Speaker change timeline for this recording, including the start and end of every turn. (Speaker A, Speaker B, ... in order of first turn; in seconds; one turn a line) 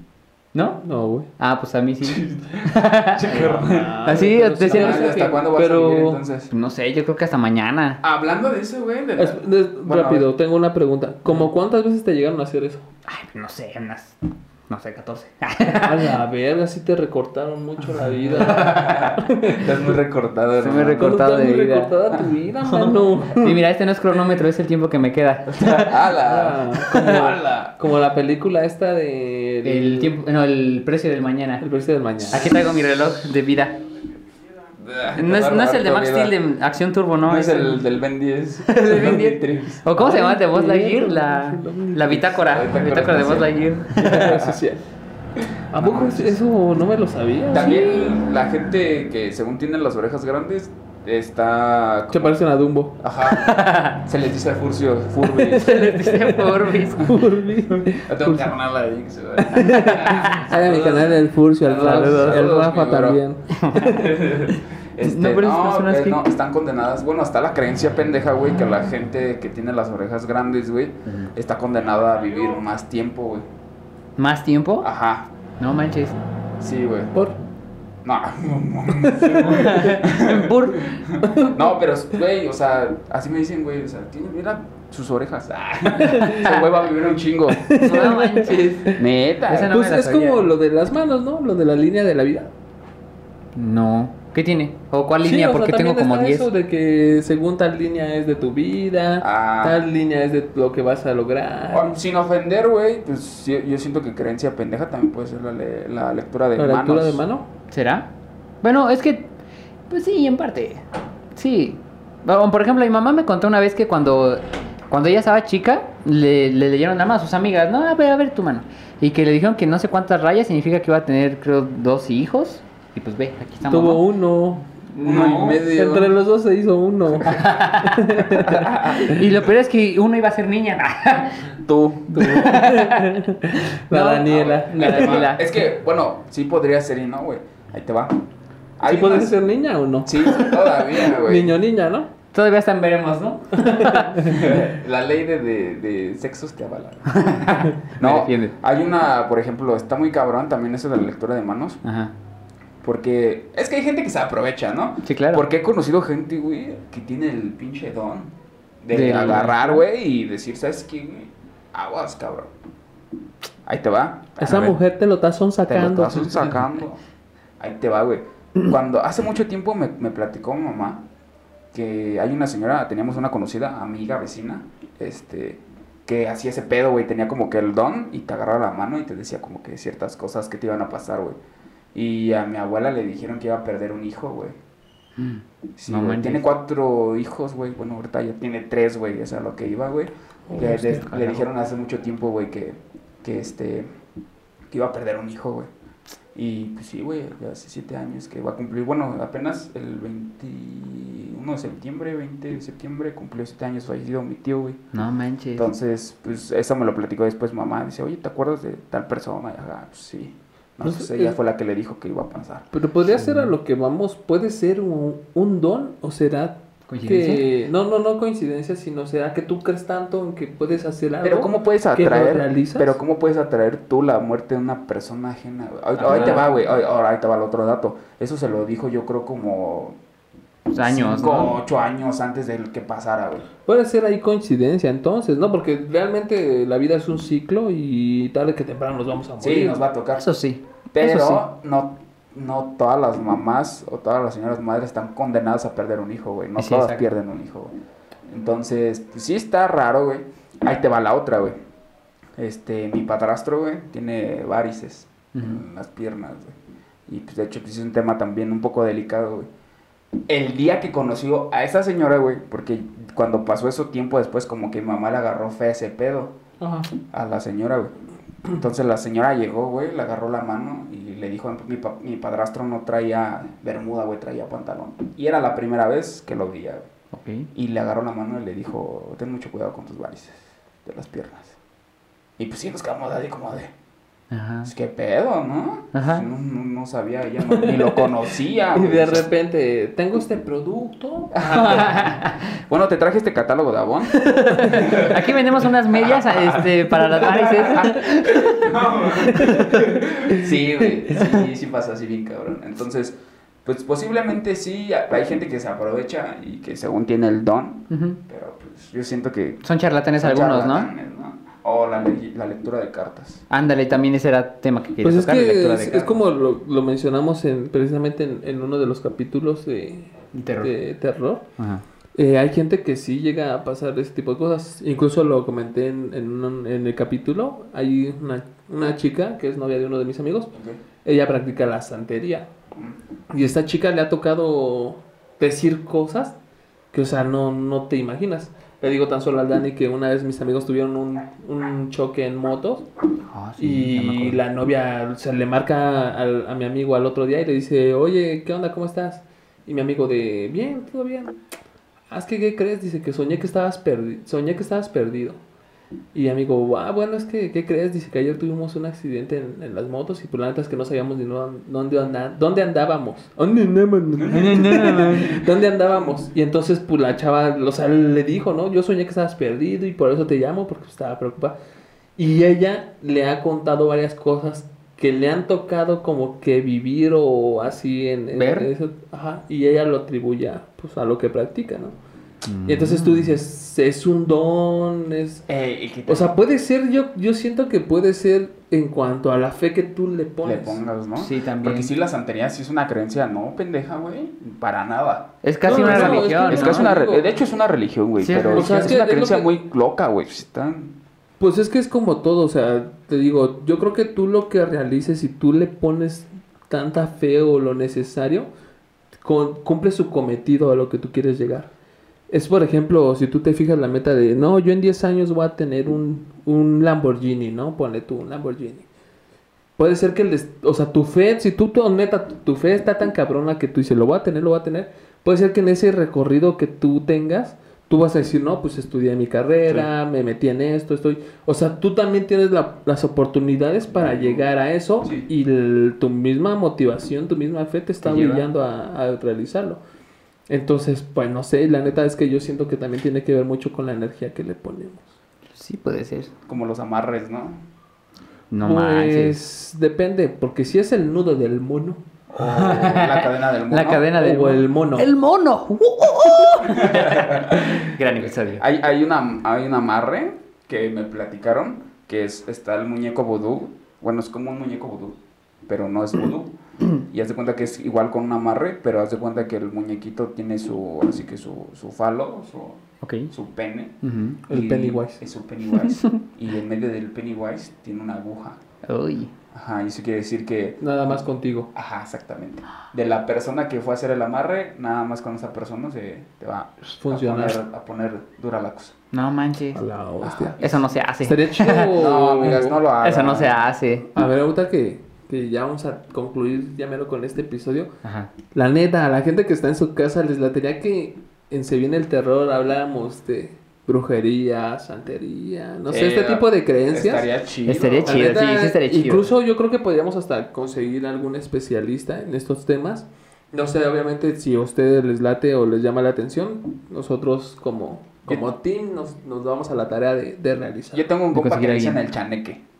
Speaker A: 0.5-0.8
Speaker B: 0.8-1.3
Speaker A: 1.4-5.2
Speaker C: 2.0-6.5
Speaker B: 3.3-6.2
Speaker A: 6.5-8.0
Speaker C: 8.0-10.3
Speaker B: 9.2-12.8
Speaker A: 13.1-14.2
Speaker A: 14.7-16.1
Speaker B: 15.8-19.8
Speaker C: 18.4-21.2
Speaker A: 18.4-19.0
Speaker A: 20.6-21.9
Speaker B: 21.0-23.6
Speaker A: 22.7-26.0
Speaker C: 25.5-27.7
Speaker B: 26.2-30.1
Speaker A: 29.6-31.6
Speaker B: 31.6-32.6
Speaker A: 32.3-33.8
Speaker C: 34.8-36.3
Speaker A: 35.1-37.8
Speaker C: 37.2-39.8
Speaker A: 38.7-44.4
Speaker B: 39.9-42.2
Speaker C: 42.2-44.5
Speaker B: 44.0-44.8
Speaker C: 45.4-46.4
Speaker B: 45.7-47.8
Speaker C: 47.5-52.4
Speaker A: 47.5-48.2
Speaker B: 52.1-53.0
Speaker C: 53.0-56.1
Speaker A: 53.3-54.0
Speaker B: 55.4-58.5
Speaker A: 55.5-57.1
Speaker C: 58.0-63.2
Speaker B: 59.5-64.1
Speaker A: 60.1-60.4
Speaker A: 61.8-62.5
Speaker A: 63.5-64.1
Speaker C: 63.8-73.5
Speaker A: 65.0-66.2
Speaker A: 74.2-74.9
Speaker C: 74.8-75.3
Speaker A: 75.6-76.2
Speaker C: 76.6-77.1
Speaker C: 78.0-87.9
Speaker A: 79.1-81.0
Speaker B: 81.2-81.7
Speaker B: 86.0-86.4
Speaker A: 86.2-86.6
Speaker B: 87.5-89.0
Speaker A: 87.7-90.5
Speaker C: 89.0-89.7
Speaker B: 89.6-92.5
Speaker A: 93.5-96.5
Speaker B: 95.2-101.9
Speaker C: 99.2-99.8
Speaker C: 101.7-107.2
Speaker B: 106.6-107.5
Speaker A: 107.7-108.1
Speaker A: 108.6-109.3
Speaker A: 109.9-110.8
Speaker A: 111.3-124.0
Speaker B: 123.7-129.2
Speaker A: 124.9-125.7
Speaker C: 125.0-126.1
Speaker A: 127.2-131.4
Speaker C: 128.3-129.2
Speaker C: 131.6-132.3
Speaker B: 132.1-135.2
Speaker A: 132.1-135.4
Speaker C: 134.2-138.2
Speaker C: 138.8-139.3
Speaker B: 138.8-142.1
Speaker C: 140.0-141.6
Speaker A: 142.3-144.2
Speaker B: 143.6-144.4
Speaker C: 144.2-147.3
Speaker A: 147.1-148.5
Speaker C: 147.9-151.8
Speaker A: 151.8-152.1
Speaker C: 152.8-162.5
Speaker A: 155.0-155.4
Speaker A: 158.9-159.8
Speaker C: 163.6-164.8
Speaker B: 164.4-166.7
Speaker C: 165.7-167.0
Speaker C: 167.6-171.0
Speaker C: 171.7-181.4
Speaker C: 181.9-184.6
Speaker A: 185.2-186.6
Speaker C: 185.8-193.9
Speaker B: 190.5-191.1
Speaker A: 190.9-191.4
Speaker C: 194.7-195.7
Speaker C: 196.3-204.8
Speaker A: 204.9-205.7
Speaker C: 205.6-212.7
Speaker B: 210.8-211.4
Speaker B: 212.7-223.0
Speaker A: 213.1-213.5
Speaker A: 216.9-217.4
Speaker C: 221.2-230.0
Speaker A: 226.0-226.4
Speaker A: 230.7-231.6
Speaker C: 230.8-233.5
Speaker B: 233.6-239.8
Speaker C: 239.4-240.2
Speaker A: 240.2-241.4
Speaker C: 240.9-247.7
Speaker A: 246.6-247.1
Speaker C: 248.3-251.6
Speaker C: 252.3-256.6
Speaker A: 255.3-255.6
Speaker C: 257.1-259.5
Speaker C: 260.3-266.4
Speaker B: 266.6-266.9
Speaker C: 267.1-267.9
Speaker C: 268.4-276.9
Speaker A: 277.1-277.5
Speaker C: 277.5-281.5
Speaker C: 282.4-283.7
Speaker A: 284.3-284.7
Speaker C: 284.6-289.3
Speaker A: 285.9-286.2
Speaker B: 287.4-288.2
Speaker B: 288.7-292.1
Speaker C: 291.3-292.0
Speaker A: 291.5-292.5
Speaker C: 292.6-295.3
Speaker B: 294.3-295.1
Speaker A: 294.4-298.4
Speaker C: 295.9-309.6
Speaker B: 297.8-298.0
Speaker B: 299.2-301.1
Speaker A: 307.9-308.2
Speaker A: 309.6-310.9
Speaker C: 310.2-313.4
Speaker A: 313.5-316.2
Speaker B: 315.0-321.4
Speaker A: 320.3-320.7
Speaker A: 321.6-321.8
Speaker B: 322.1-330.5
Speaker C: 330.5-330.8
Speaker B: 331.0-332.5
Speaker B: 333.3-336.4
Speaker B: 336.9-342.9
Speaker A: 343.3-344.4
Speaker B: 343.6-351.4
Speaker B: 352.1-355.4
Speaker B: 356.1-371.6
Speaker A: 364.3-365.4
Speaker B: 372.2-381.9
Speaker A: 378.3-378.7
Speaker A: 382.4-383.4
Speaker B: 382.7-385.5
Speaker C: 385.5-386.3
Speaker B: 386.1-390.8
Speaker C: 390.4-400.9
Speaker A: 391.2-391.9
Speaker A: 395.4-396.9
Speaker B: 395.6-397.3
Speaker A: 398.2-398.9
Speaker B: 398.5-399.5
Speaker B: 401.4-408.5
Speaker B: 409.2-411.7
Speaker B: 412.3-418.9
Speaker B: 419.8-439.8
Speaker C: 433.9-434.5
Speaker A: 438.0-438.5
Speaker B: 440.5-445.1
Speaker A: 445.5-446.3
Speaker C: 446.4-447.6
Speaker A: 448.5-449.4
Speaker B: 448.6-452.0
Speaker C: 452.3-454.1
Speaker A: 452.4-458.6
Speaker B: 454.1-455.1
Speaker C: 456.6-474.0
Speaker A: 473.0-473.3
Speaker A: 474.0-474.4
Speaker B: 474.5-475.2
Speaker C: 474.5-478.6
Speaker A: 475.9-476.2
Speaker A: 478.8-479.3
Speaker C: 479.5-488.9
Speaker B: 480.8-481.7
Speaker B: 487.0-487.6
Speaker A: 489.1-489.8
Speaker B: 489.7-492.8
Speaker C: 490.2-490.6
Speaker A: 490.6-491.9
Speaker C: 491.9-493.6
Speaker A: 492.5-494.1
Speaker B: 494.1-497.9
Speaker A: 498.0-498.3
Speaker B: 498.5-507.3
Speaker C: 505.9-508.3
Speaker A: 507.7-509.3
Speaker B: 508.0-521.1
Speaker C: 520.9-522.6
Speaker A: 521.3-522.0